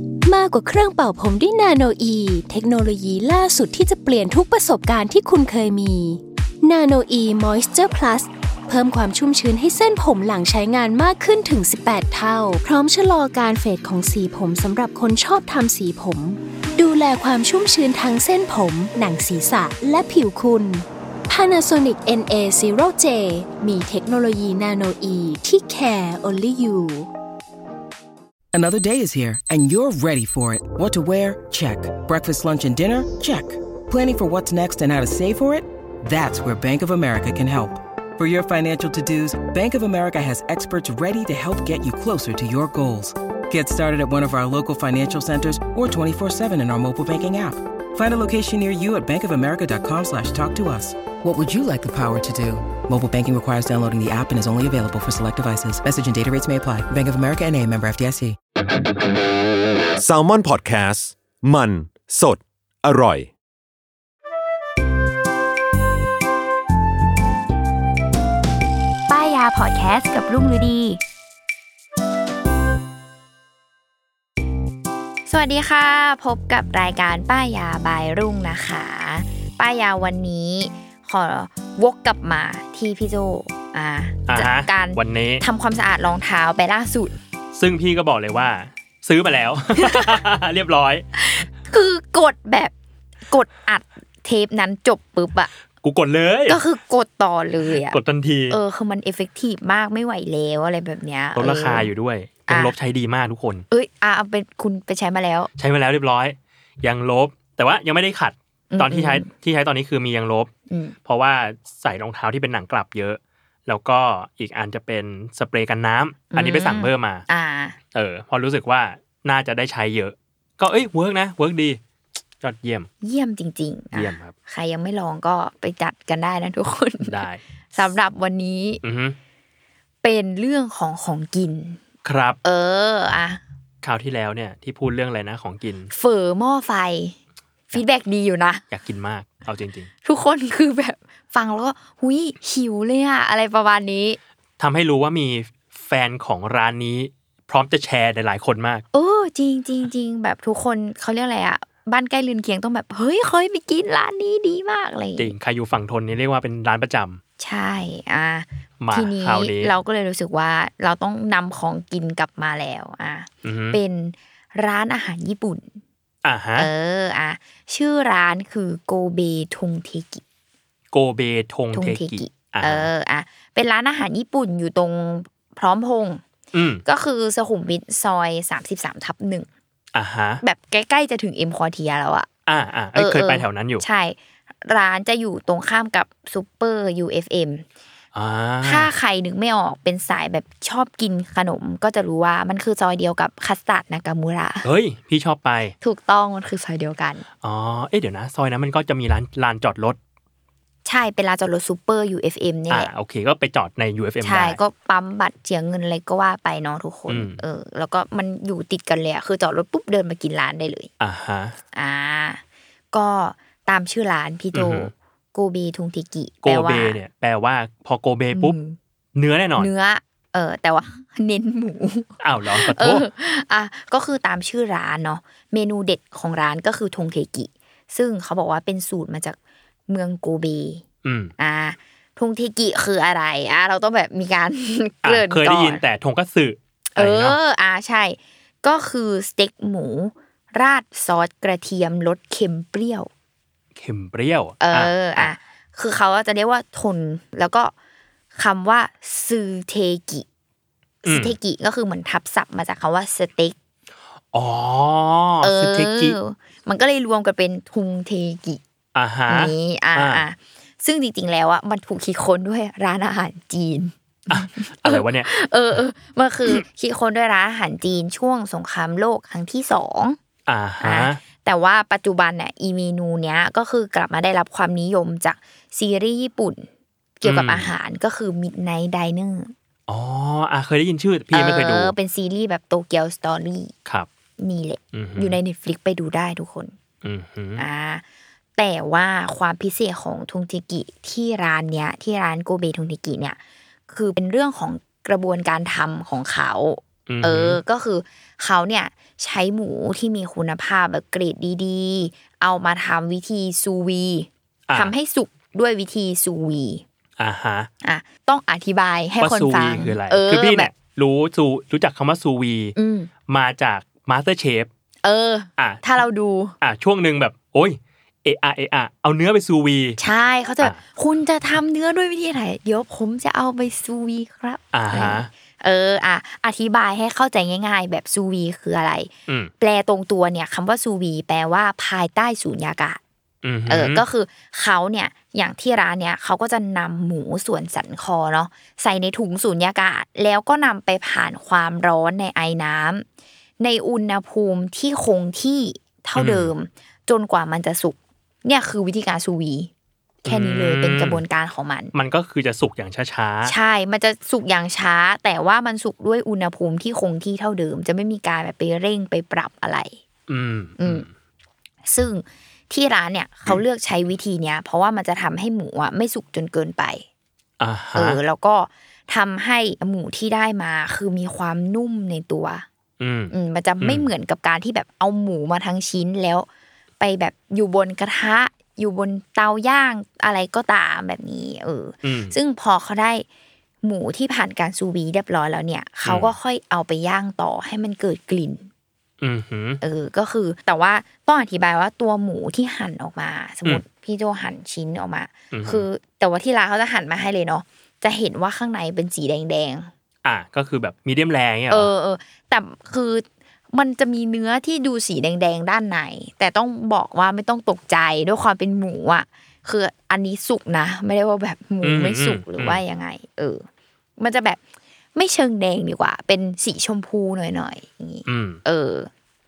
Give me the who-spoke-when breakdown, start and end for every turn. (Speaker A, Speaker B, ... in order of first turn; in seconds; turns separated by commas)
Speaker A: 0.2-27.1, Speaker B: 28.5-58.4, Speaker C: 60.0-63.3, Speaker D: 69.1-71.0, Speaker D: 75.2-87.1, Speaker E: 84.3-85.4, Speaker E: 87.5-91.0, Speaker D: 89.8-90.1, Speaker D: 91.1-92.7, Speaker D: 93.3-95.5, Speaker E: 95.8-96.6, Speaker D: 96.5-98.0, Speaker E: 97.7-98.6, Speaker D: 98.5-101.9, Speaker E: 101.3-103.6, Speaker D: 102.5-102.7, Speaker D: 103.7-105.5, Speaker E: 105.6-110.5, Speaker D: 108.7-109.2, Speaker D: 110.7-111.0, Speaker E: 111.0-117.2, Speaker D: 116.3-117.8, Speaker E: 117.9-121.8, Speaker E: 122.4-122.9, Speaker D: 123.0-127.2, Speaker E: 123.9-124.3, Speaker E: 127.0-127.4, Speaker D: 127.7-128.8, Speaker E: 128.8-129.2, Speaker D: 130.0-131.8, Speaker E: 132.0-132.4, Speaker D: 132.4-133.4, Speaker E: 133.8-135.9, Speaker D: 135.9-137.2, Speaker D: 137.7-138.6, Speaker E: 138.7-139.9, Speaker D: 140.0-144.2, Speaker E: 144.6-148.8, Speaker D: 148.9-155.3, Speaker E: 155.2-157.2, Speaker D: 157.4-165.8, Speaker E: 158.8-159.7, Speaker E: 163.4-163.8, Speaker E: 166.2-166.7, Speaker D: 166.6-170.2, Speaker E: 170.9-172.9, Speaker D: 171.7-176.2, Speaker E: 176.5-176.8, Speaker D: 176.8-179.5, Speaker E: 179.9-180.4, Speaker D: 180.4-182.3, Speaker E: 182.4-183.8, Speaker D: 182.9-187.6, Speaker E: 188.1-188.9, Speaker D: 188.6-194.7, Speaker E: 194.6-195.7, Speaker D: 195.8-197.2, Speaker E: 197.4-200.0, Speaker D: 200.8-202.9, Speaker E: 202.7-204.6, Speaker D: 204.2-210.9, Speaker E: 207.1-207.4, Speaker E: 211.0-211.6, Speaker D: 211.7-212.4, Speaker D: 212.9-217.0, Speaker E: 214.5-214.9, Speaker E: 216.4-218.6, Speaker D: 218.3-218.8, Speaker E: 219.1-219.7, Speaker D: 219.6-230.8, Speaker E: 222.2-223.1, Speaker E: 231.0-231.3, Speaker D: 231.4-235.8, Speaker E: 235.0-237.4, Speaker D: 237.0-243.1, Speaker E: 243.8-245.3, Speaker D: 244.6-247.7, Speaker D: 248.3-250.2, Speaker D: 251.0-253.6, Speaker E: 251.1-251.3, Speaker E: 254.3-256.2, Speaker D: 255.4-258.6, Speaker E: 258.9-260.2, Speaker D: 259.3-270.2, Speaker E: 264.3-265.3, Speaker E: 270.5-271.2, Speaker D: 270.8-276.7, Speaker D: 277.2-279.5, Speaker E: 277.2-277.7, Speaker E: 279.9-281.9, Speaker D: 281.3-283.7, Speaker D: 284.4-286.7, Speaker E: 284.9-285.4, Speaker E: 287.0-287.6, Speaker D: 287.6-288.0, Speaker D: 288.6-306.8, Speaker E: 297.1-297.6, Speaker E: 307.2-307.7, Speaker D: 307.8-310.7, Speaker E: 309.2-312.7, Speaker D: 312.8-313.1, Speaker E: 313.3-314.7, Speaker D: 315.0-316.6, Speaker E: 315.6-315.8, Speaker E: 316.6-320.0, Speaker D: 320.0-333.0, Speaker E: 324.7-325.3, Speaker E: 333.4-334.0, Speaker D: 333.7-343.0, Speaker D: 343.6-349.7, Speaker E: 346.1-346.5, Speaker D: 350.2-351.9, Speaker E: 350.2-351.2, Speaker E: 351.9-353.5, Speaker D: 353.4-360.0, Speaker E: 360.3-361.1, Speaker D: 360.8-361.1, Speaker D: 361.8-367.1, Speaker E: 367.6-368.2, Speaker D: 367.9-372.6, Speaker E: 373.0-374.1, Speaker D: 373.3-376.5, Speaker D: 377.0-383.2, Speaker E: 382.0-382.4, Speaker D: 383.8-388.7, Speaker E: 386.0-386.3, Speaker E: 389.2-389.8, Speaker D: 389.8-399.9, Speaker E: 395.5-395.9, Speaker E: 400.2-401.9, Speaker D: 401.7-413.6, Speaker E: 411.8-412.8, Speaker D: 414.2-414.6, Speaker D: 415.1-419.1, Speaker E: 418.2-418.6